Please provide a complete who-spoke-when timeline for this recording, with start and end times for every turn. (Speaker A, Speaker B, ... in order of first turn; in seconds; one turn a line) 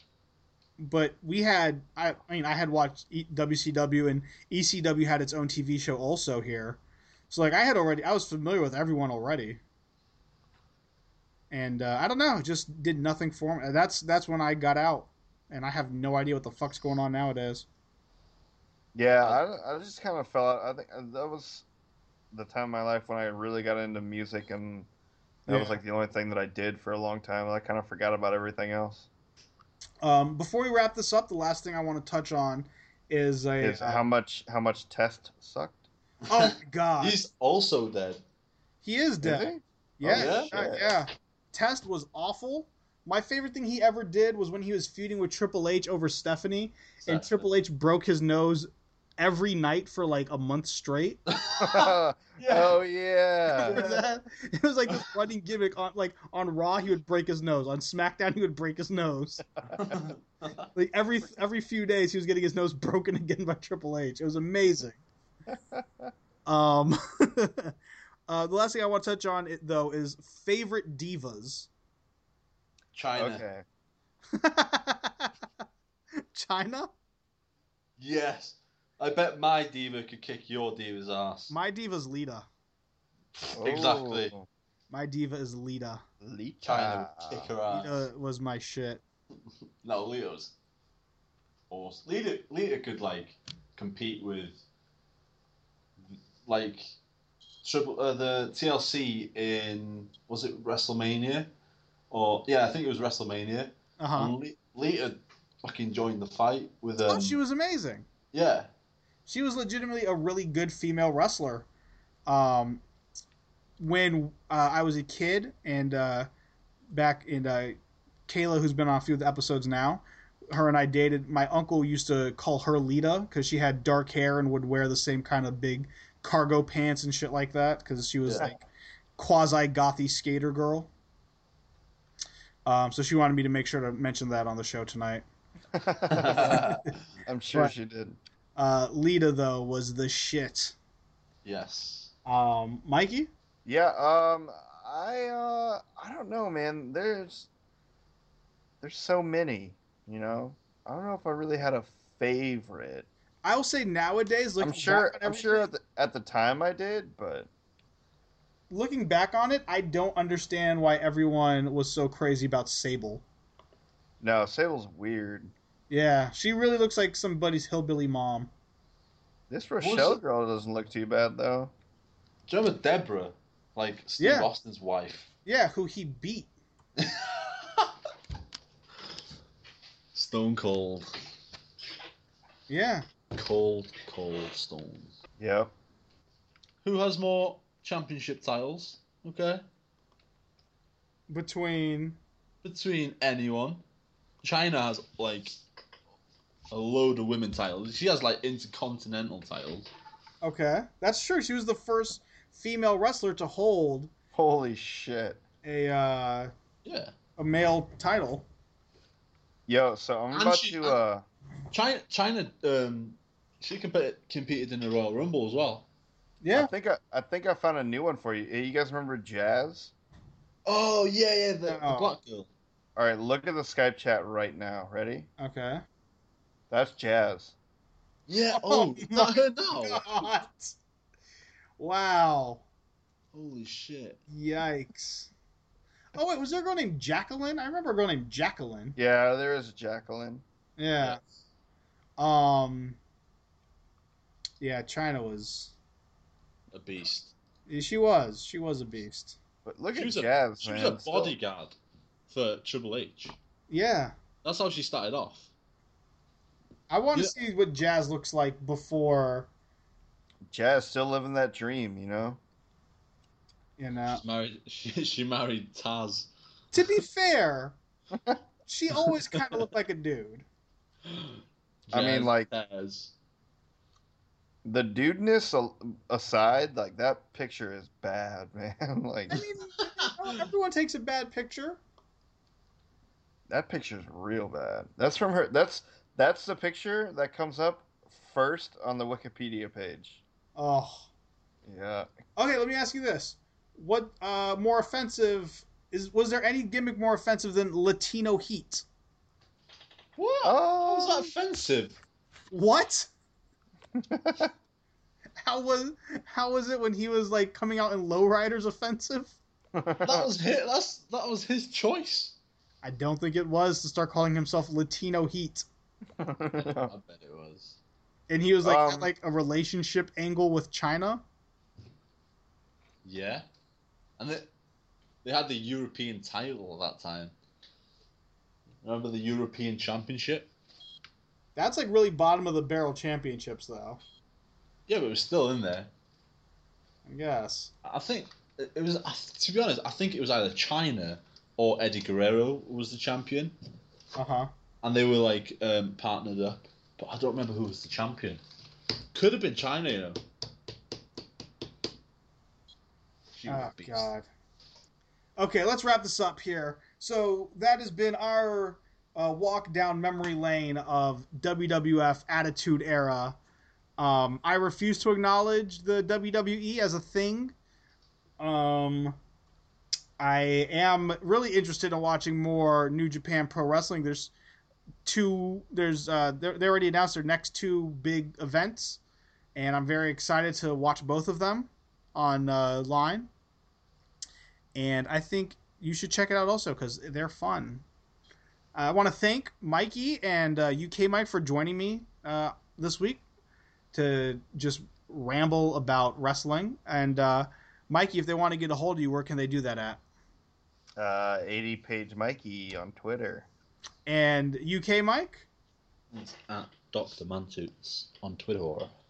Speaker A: 0.8-9.6
Speaker A: 11.5-17.6
Speaker B: 18.9-21.6
Speaker B: 22.3-24.9
Speaker A: 25.5-25.8
Speaker B: 25.5-29.1
Speaker A: 30.0-34.0
Speaker B: 33.6-35.8
Speaker A: 36.3-37.2
Speaker C: 36.3-38.2
Speaker A: 38.8-51.2
Speaker B: 39.2-40.9
Speaker C: 40.1-40.5
Speaker C: 47.0-47.4
Speaker C: 51.3-52.8
Speaker B: 51.6-53.8
Speaker A: 53.5-59.4
Speaker C: 53.6-54.0
Speaker C: 59.8-60.6
Speaker A: 60.7-65.0
Speaker B: 65.5-66.1
Speaker A: 66.5-67.7
Speaker A: 68.3-71.7
Speaker C: 72.9-73.4
Speaker B: 73.2-73.6
Speaker A: 74.3-75.3
Speaker A: 76.2-76.9
Speaker C: 78.0-81.5
Speaker A: 81.5-82.5
Speaker C: 83.4-84.3
Speaker B: 83.5-84.5
Speaker A: 84.9-86.0
Speaker B: 86.2-87.5
Speaker C: 86.6-88.0
Speaker A: 87.7-89.0
Speaker C: 89.8-90.5
Speaker C: 91.7-94.6
Speaker C: 96.1-97.0
Speaker C: 97.6-101.5
Speaker C: 102.1-107.4
Speaker A: 104.0-104.3
Speaker A: 107.1-108.0
Speaker C: 108.3-108.7
Speaker A: 109.3-111.7
Speaker A: 112.3-112.8
Speaker A: 113.8-116.3
Speaker A: 116.9-117.8
Speaker A: 118.3-128.7
Speaker A: 129.2-130.9
Speaker A: 132.7-135.2
Speaker B: 135.7-136.7
Speaker C: 136.1-136.9
Speaker A: 136.3-136.7
Speaker B: 137.2-138.2
Speaker A: 138.6-140.7
Speaker C: 141.4-142.1
Speaker A: 142.2-143.3
Speaker B: 143.6-147.5
Speaker B: 148.8-153.1
Speaker A: 153.4-155.7
Speaker B: 154.6-157.5
Speaker A: 158.7-163.2
Speaker B: 164.2-165.5
Speaker A: 165.9-168.5
Speaker B: 169.5-171.7
Speaker C: 169.8-170.2
Speaker C: 172.5-175.3
Speaker A: 174.2-174.5
Speaker A: 175.4-176.5
Speaker C: 177.0-177.9
Speaker C: 180.1-181.1
Speaker A: 182.7-183.1
Speaker C: 183.3-185.1
Speaker B: 185.4-185.7
Speaker C: 186.8-189.6
Speaker A: 191.3-192.2
Speaker C: 192.6-193.8
Speaker C: 194.4-195.6
Speaker C: 196.7-199.9
Speaker A: 200.4-204.1
Speaker B: 204.3-205.4
Speaker A: 205.6-206.5
Speaker C: 206.8-207.1
Speaker A: 207.4-208.5
Speaker B: 209.7-211.2
Speaker C: 210.3-211.0
Speaker C: 211.7-215.8
Speaker A: 216.4-216.7
Speaker B: 216.5-219.9
Speaker C: 220.7-222.5
Speaker A: 221.7-222.2
Speaker B: 222.9-225.3
Speaker A: 225.4-225.8
Speaker B: 226.7-227.5
Speaker C: 228.3-230.3
Speaker A: 228.5-230.8
Speaker A: 231.8-232.6
Speaker C: 233.3-234.2
Speaker A: 234.3-235.3
Speaker A: 236.1-238.9
Speaker B: 238.9-240.4
Speaker A: 240.8-241.2
Speaker A: 242.2-243.0
Speaker A: 244.6-245.7
Speaker C: 246.7-247.3
Speaker A: 247.7-249.4
Speaker B: 249.6-251.3
Speaker C: 249.9-251.8
Speaker C: 252.3-253.3
Speaker A: 253.7-254.1
Speaker C: 254.4-255.5
Speaker A: 256.9-259.5
Speaker B: 260.5-262.4
Speaker A: 263.8-264.2
Speaker C: 264.1-266.3
Speaker A: 266.7-267.8
Speaker A: 268.6-270.4
Speaker C: 269.3-269.6
Speaker C: 271.0-273.1
Speaker B: 271.9-272.5
Speaker B: 274.6-279.4
Speaker A: 279.3-281.8
Speaker B: 283.5-290.2
Speaker A: 290.6-291.1
Speaker B: 291.6-292.1
Speaker A: 292.4-298.9
Speaker C: 300.2-302.0
Speaker B: 300.4-301.3
Speaker A: 302.5-303.1
Speaker B: 304.0-304.5
Speaker A: 305.4-309.4
Speaker B: 309.7-310.3
Speaker C: 310.0-312.3
Speaker A: 312.8-315.7
Speaker B: 316.2-316.9
Speaker C: 316.6-317.8
Speaker A: 318.3-321.2
Speaker B: 318.6-319.1
Speaker C: 323.0-323.5
Speaker C: 324.2-324.5
Speaker C: 325.2-327.3
Speaker C: 328.8-330.5
Speaker A: 331.6-334.0
Speaker C: 334.9-335.9
Speaker A: 337.1-337.7
Speaker C: 337.8-343.5
Speaker A: 344.1-344.5
Speaker C: 344.8-348.4
Speaker C: 349.1-350.2
Speaker C: 353.4-354.1
Speaker A: 353.5-354.2
Speaker A: 355.4-363.4
Speaker A: 364.0-367.5
Speaker A: 368.4-369.2
Speaker A: 370.2-374.3
Speaker A: 375.0-379.0
Speaker A: 379.5-383.3
Speaker A: 384.8-387.8
Speaker A: 388.7-393.2
Speaker A: 393.9-400.0
Speaker B: 401.0-403.5
Speaker A: 404.1-405.4
Speaker C: 406.1-408.9